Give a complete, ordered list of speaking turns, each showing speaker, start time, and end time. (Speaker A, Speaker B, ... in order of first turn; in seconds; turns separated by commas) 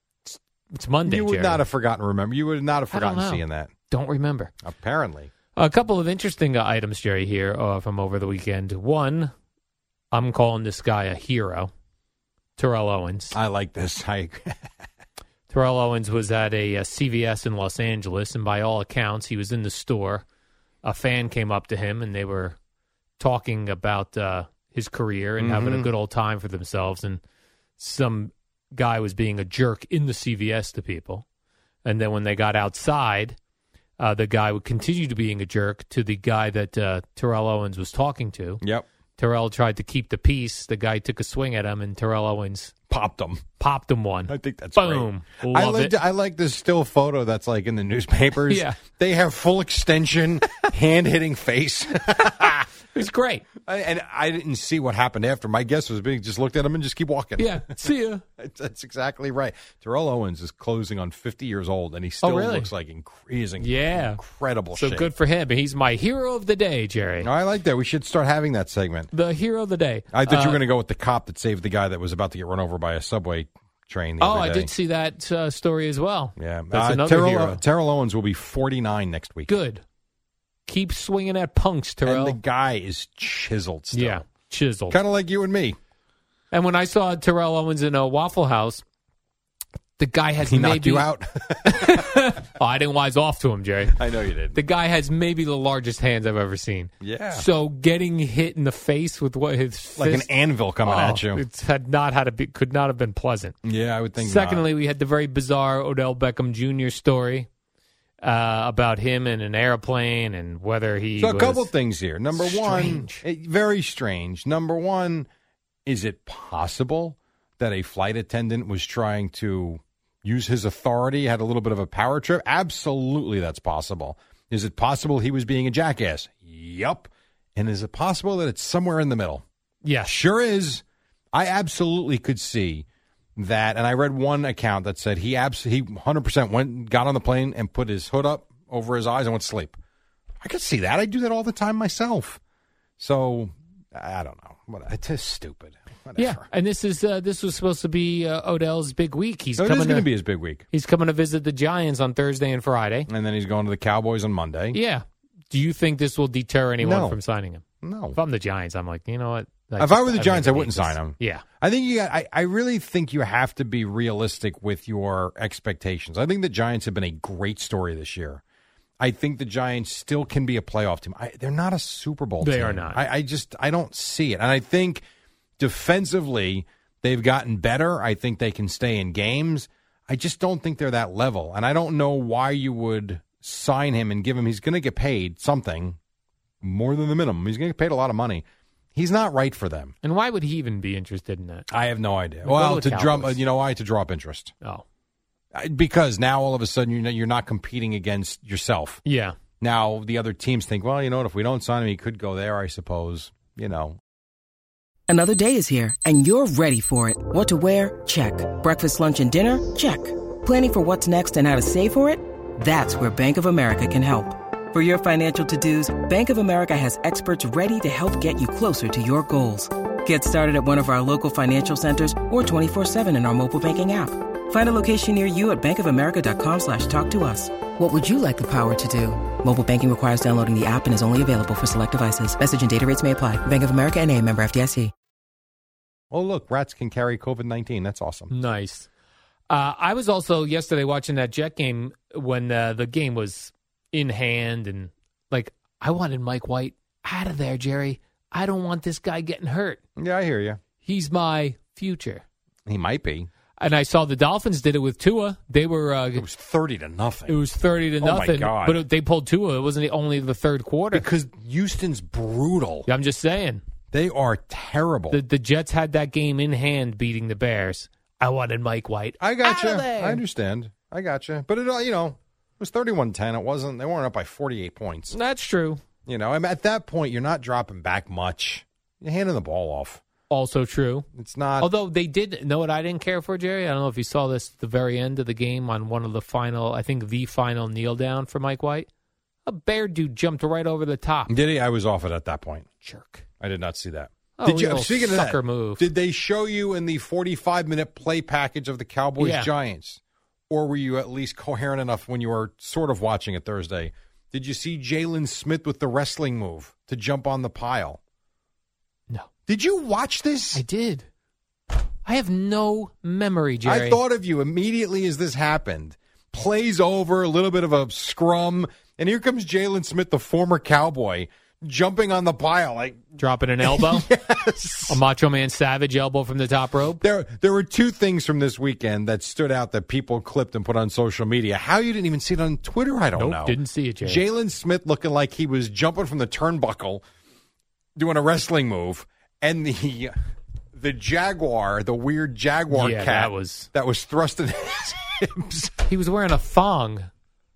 Speaker A: 0.2-1.6, Speaker B: 1.0-3.7, Speaker A: 2.9-4.5, Speaker B: 4.6-5.3, Speaker A: 5.5-9.3, Speaker A: 10.1-11.7, Speaker A: 12.6-13.3, Speaker B: 13.3-14.6, Speaker A: 15.5-20.2, Speaker A: 20.8-22.6, Speaker A: 23.2-27.2, Speaker B: 25.4-25.9, Speaker A: 27.8-31.2, Speaker A: 31.8-33.4, Speaker A: 34.0-38.6, Speaker A: 39.2-42.7, Speaker B: 42.9-43.5, Speaker A: 43.6-45.9, Speaker B: 44.3-52.7, Speaker A: 48.5-48.8, Speaker A: 52.8-53.5, Speaker B: 53.6-57.7, Speaker A: 57.4-58.2, Speaker B: 58.4-65.1, Speaker A: 62.2-62.7, Speaker A: 63.6-64.2, Speaker A: 64.7-67.3, Speaker B: 67.2-69.1, Speaker A: 69.1-70.6, Speaker B: 70.1-74.7, Speaker A: 74.2-77.6, Speaker B: 76.4-79.5, Speaker A: 79.5-79.8, Speaker A: 80.7-82.4, Speaker B: 82.0-84.2, Speaker A: 83.9-85.0, Speaker B: 84.9-85.8, Speaker A: 86.5-88.8, Speaker A: 90.0-91.1, Speaker B: 90.4-92.0, Speaker A: 91.7-94.0, Speaker B: 93.9-94.6, Speaker A: 94.5-103.5, Speaker B: 97.0-97.5, Speaker B: 100.0-101.4, Speaker B: 103.6-104.7, Speaker A: 104.2-107.5, Speaker A: 108.2-111.7, Speaker B: 111.2-115.3, Speaker A: 112.3-113.2, Speaker B: 115.8-129.4, Speaker A: 129.8-130.2, Speaker B: 130.0-130.8, Speaker B: 131.3-132.8, Speaker B: 133.4-139.8, Speaker B: 140.4-142.4, Speaker B: 143.0-146.5, Speaker A: 146.2-150.1, Speaker B: 149.6-150.7, Speaker A: 150.7-153.1, Speaker B: 153.1-154.8, Speaker A: 154.7-157.6, Speaker B: 156.8-157.2, Speaker B: 157.8-158.2, Speaker A: 158.1-161.4, Speaker B: 159.8-168.4, Speaker B: 169.0-175.0, Speaker A: 172.4-173.0, Speaker B: 175.6-186.0, Speaker B: 186.6-188.4, Speaker B: 188.9-189.9, Speaker A: 190.0-191.7, Speaker B: 191.7-194.5, Speaker A: 192.4-193.4, Speaker B: 195.5-199.0, Speaker A: 199.0-199.3, Speaker B: 199.6-204.0, Speaker C: 205.1-234.9, Speaker B: 236.1-238.3, Speaker A: 238.3-238.9, Speaker A: 239.5-249.8, Speaker B: 250.0-250.6, Speaker A: 250.8-252.2, Speaker B: 252.7-253.3, Speaker A: 253.6-256.2, Speaker B: 256.2-257.4, Speaker A: 257.3-261.1, Speaker B: 258.0-258.8, Speaker B: 260.9-262.9, Speaker A: 262.9-263.6, Speaker B: 263.9-265.2, Speaker A: 265.1-270.2, Speaker B: 269.2-275.1, Speaker A: 275.1-275.8, Speaker B: 276.1-280.0, Speaker A: 280.3-281.1, Speaker B: 281.1-281.7, Speaker A: 281.6-288.9, Speaker A: 289.4-291.3, Speaker B: 291.3-292.7, Speaker A: 292.8-293.2, Speaker B: 293.4-308.0, Speaker A: 294.4-295.9, Speaker A: 299.2-299.5, Speaker B: 309.5-310.6, Speaker A: 310.5-311.1, Speaker A: 312.0-314.0, Speaker B: 313.6-323.0, Speaker A: 323.2-324.1, Speaker B: 323.6-325.0, Speaker A: 324.9-327.0, Speaker B: 327.0-337.0, Speaker A: 333.1-334.2, Speaker B: 337.9-340.1, Speaker B: 340.7-345.8, Speaker A: 342.7-343.7, Speaker A: 345.9-347.1